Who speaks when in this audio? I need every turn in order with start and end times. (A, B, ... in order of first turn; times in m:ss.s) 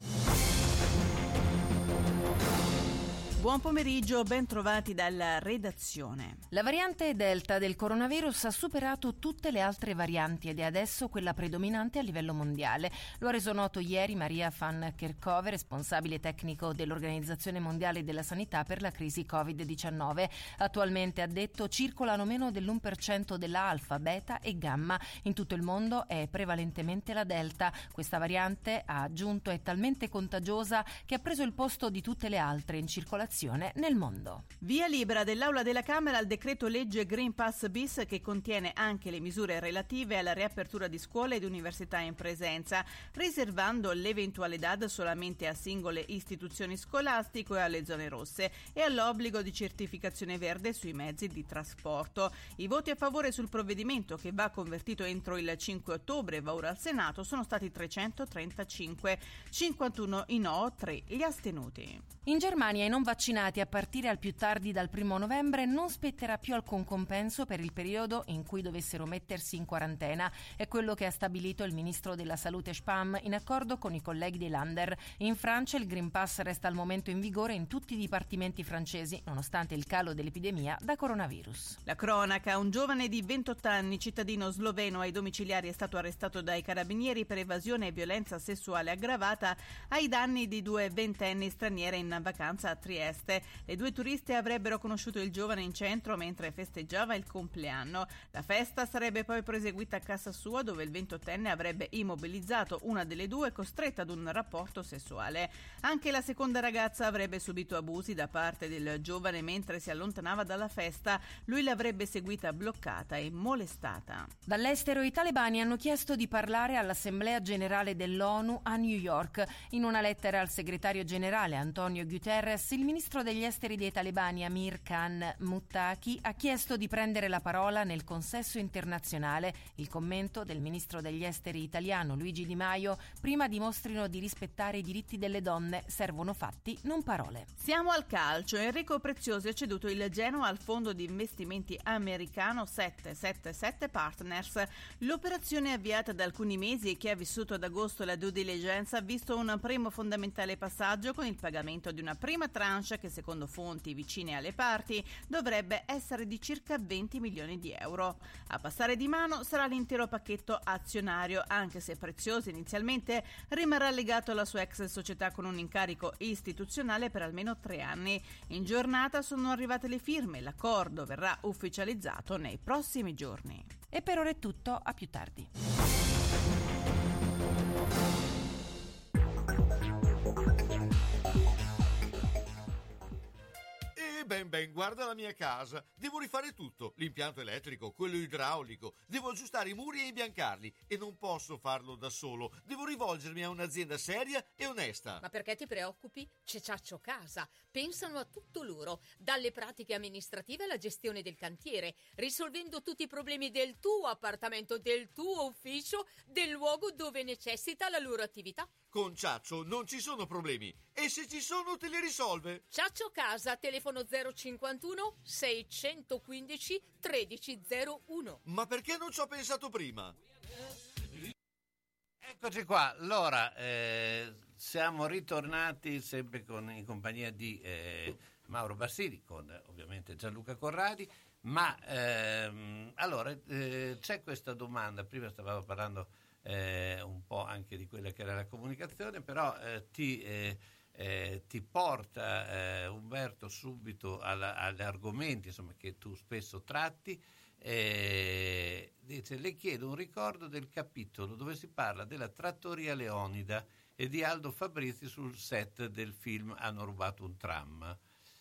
0:03.4-0:06.4 A
0:06.5-0:34.4 B
0:34.6-1:02.0 A
1:02.2-1:21.8 B
1:21.8-1:54.3 A
1:54.5-2:17.5 B
2:17.6-2:53.7 A
2:53.9-2:55.5 B
3:04.0-3:15.2 C
3:15.2-3:28.7 D
3:28.9-3:32.6 C
3:32.7-3:38.4 D
3:38.4-3:40.1 C
3:42.2-4:18.0 E